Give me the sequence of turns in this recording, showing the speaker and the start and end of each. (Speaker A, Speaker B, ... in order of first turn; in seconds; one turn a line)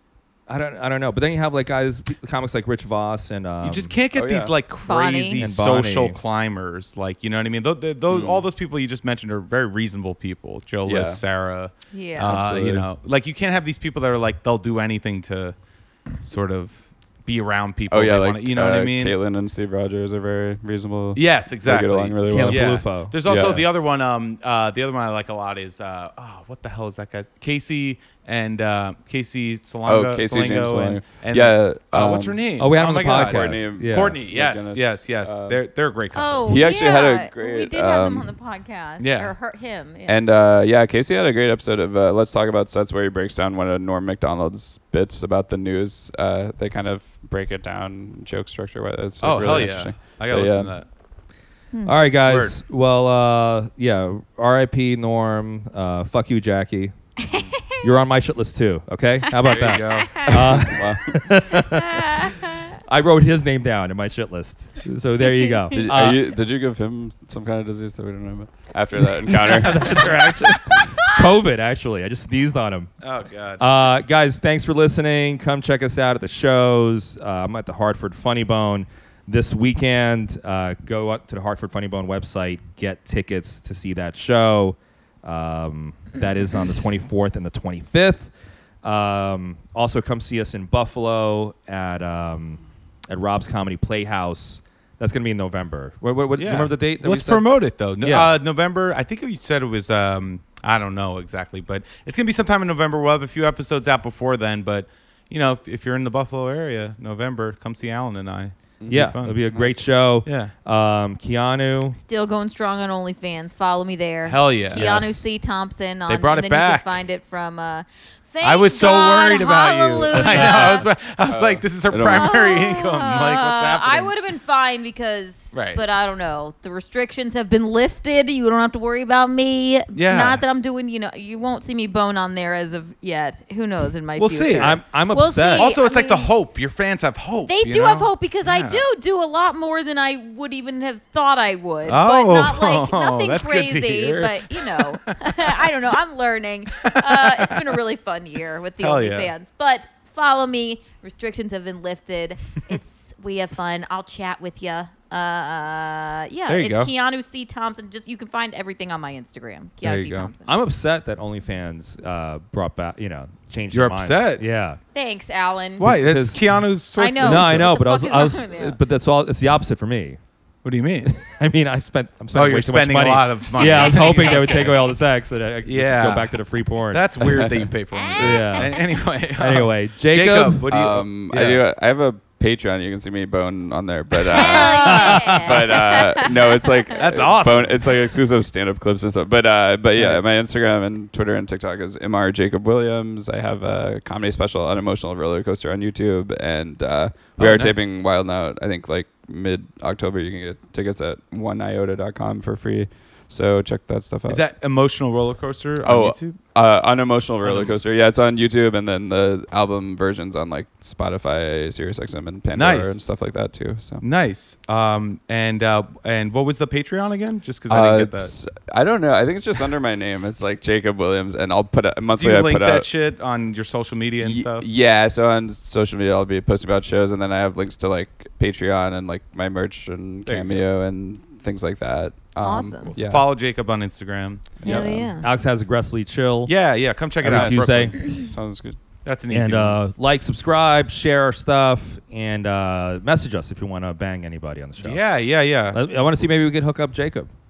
Speaker A: 0.5-4.0
Speaker B: 3.6-15.6
Speaker C: 4.1-4.5
Speaker D: 4.9-5.4
Speaker A: 5.4-6.2
Speaker C: 8.1-8.4
Speaker C: 10.8-11.2
Speaker D: 11.9-12.3
Speaker C: 12.2-12.9
Speaker B: 16.2-19.2
Speaker C: 17.9-23.7
Speaker B: 21.1-36.8
Speaker A: 22.3-23.1
Speaker C: 29.9-32.4
Speaker A: 32.6-34.2
Speaker C: 33.0-35.6
Speaker D: 36.1-40.2
Speaker C: 36.5-38.3
Speaker B: 39.0-39.3
Speaker C: 40.1-50.7
Speaker B: 49.2-50.9
Speaker A: 51.9-57.0
Speaker B: 52.2-52.6
Speaker D: 57.2-57.8
Speaker A: 57.7-66.2
Speaker B: 59.5-60.6
Speaker D: 59.5-60.3
Speaker C: 60.3-61.2
Speaker D: 61.7-62.5
Speaker D: 65.3-65.8
Speaker C: 65.7-70.1
Speaker A: 69.3-72.9
Speaker B: 73.0-73.7
Speaker A: 73.6-88.3
Speaker A: 88.8-97.5
Speaker B: 96.4-110.5
Speaker A: 98.0-98.3
Speaker C: 108.8-109.7
Speaker A: 108.9-112.0
Speaker D: 112.0-120.9
Speaker B: 114.3-115.2
Speaker C: 114.7-115.1
Speaker B: 116.1-117.0
Speaker B: 118.4-124.1
Speaker A: 120.1-120.8
Speaker C: 121.3-122.5
Speaker D: 122.1-136.3
Speaker B: 125.5-125.8
Speaker B: 129.9-130.4
Speaker B: 134.2-134.8
Speaker A: 134.6-135.7
Speaker B: 135.6-138.8
Speaker D: 137.5-160.5
Speaker B: 141.9-145.8
Speaker B: 146.7-147.8
Speaker B: 148.8-149.3
Speaker B: 156.5-156.9
Speaker B: 159.8-160.3
Speaker A: 160.4-164.8
Speaker B: 163.7-164.4
Speaker D: 164.9-165.9
Speaker B: 165.8-167.8
Speaker A: 165.8-166.4
Speaker D: 167.0-168.8
Speaker A: 167.2-170.2
Speaker B: 170.6-171.1
Speaker A: 171.0-178.8
Speaker B: 172.3-174.8
Speaker D: 173.7-174.7
Speaker B: 175.6-176.3
Speaker B: 176.9-181.6
Speaker D: 177.9-178.8
Speaker A: 179.3-180.7
Speaker C: 180.7-204.4
Speaker D: 184.3-186.7
Speaker A: 184.8-185.4
Speaker B: 186.9-188.1
Speaker B: 189.9-190.3
Speaker B: 197.4-197.9
Speaker B: 204.3-206.4
Speaker C: 205.8-214.1
Speaker B: 207.4-207.8
Speaker B: 212.6-213.0
Speaker B: 214.0-218.3
Speaker C: 217.7-222.9
Speaker B: 222.2-224.7
Speaker C: 224.2-233.3
Speaker B: 230.3-230.6
Speaker D: 232.4-232.9
Speaker B: 232.8-234.5
Speaker C: 234.6-235.1
Speaker D: 234.6-235.3
Speaker A: 234.7-236.5
Speaker B: 236.5-238.0
Speaker A: 237.2-238.0
Speaker C: 237.3-238.8
Speaker B: 239.1-239.8
Speaker A: 239.3-245.0
Speaker B: 244.8-245.8
Speaker A: 245.7-247.3